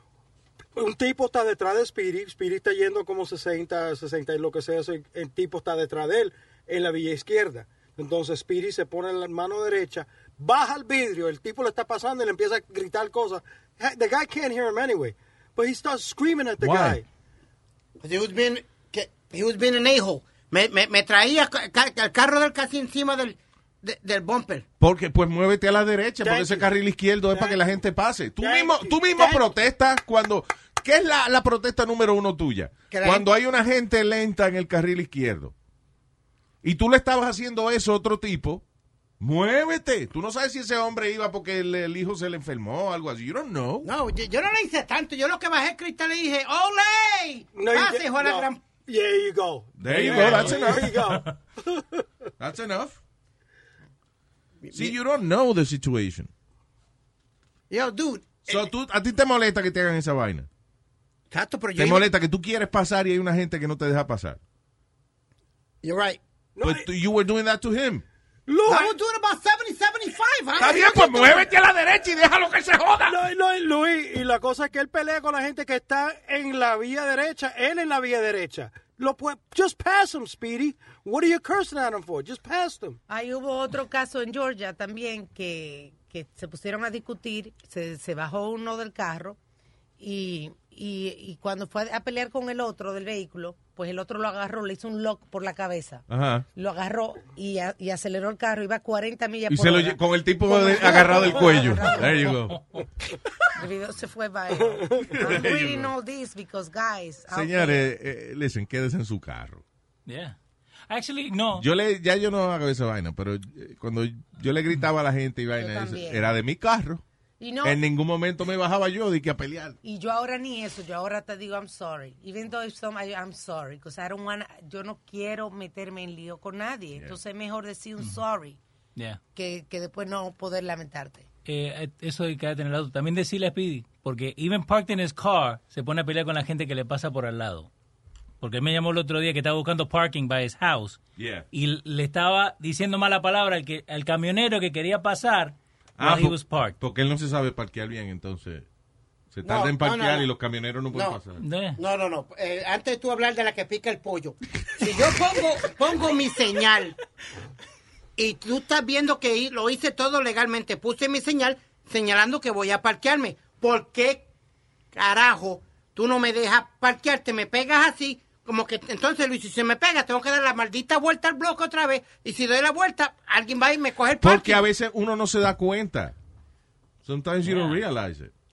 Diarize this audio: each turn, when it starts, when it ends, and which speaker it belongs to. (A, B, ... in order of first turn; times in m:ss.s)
0:00.7-0:17.0 A
0:16.6-0:17.0 B
0:18.0-0:24.6 C
0:24.8-0:35.5 B
0:26.2-0:26.7 A
0:27.3-0:27.7 A
0:28.4-0:29.6 A
0:32.9-0:33.3 C
0:36.6-0:38.6 B
0:39.2-0:43.9 B
0:43.8-0:48.6 C
0:47.5-0:52.0 A
0:49.8-0:50.9 B
0:52.4-0:53.0 B
0:54.6-0:54.9 C
0:54.7-0:56.3 B
0:57.7-0:58.7 C
0:58.5-1:00.5 B
1:01.3-1:02.0 C
1:01.8-1:04.4 B
1:05.8-1:06.2 C
1:06.6-1:06.9 A
1:06.6-1:08.0 B
1:08.5-1:09.0 A
1:08.7-1:11.5 C
1:10.6-1:13.2 B
1:13.0-1:23.0 A
1:23.1-1:29.4 D
1:30.0-1:42.4 D
1:36.1-1:36.4 B
1:39.5-1:42.6 B
1:42.5-1:42.8 E
1:43.5-1:47.9 D
1:44.5-1:45.1 A
1:45.2-1:45.9 B
1:47.3-1:49.6 B
1:50.0-1:50.4 E
1:50.9-1:51.6 E
1:51.5-1:57.0 B
1:55.6-1:56.3 D
1:57.4-1:57.8 D
1:57.6-1:59.8 B
1:59.8-2:08.6 D
2:09.3-2:11.3 D
2:11.5-2:17.7 E
2:18.4-2:21.0 E
2:21.2-2:21.4 B
2:21.5-2:26.8 E
2:26.0-2:28.6 B
2:29.3-2:31.4 B
2:29.4-2:30.3 C
2:30.9-2:31.2 C
2:31.4-2:31.8 E
2:31.8-2:37.0 C
2:38.2-2:44.3 C
2:44.9-2:54.6 C
2:54.2-2:56.1 B
2:57.0-2:58.3 B
2:57.4-2:57.8 E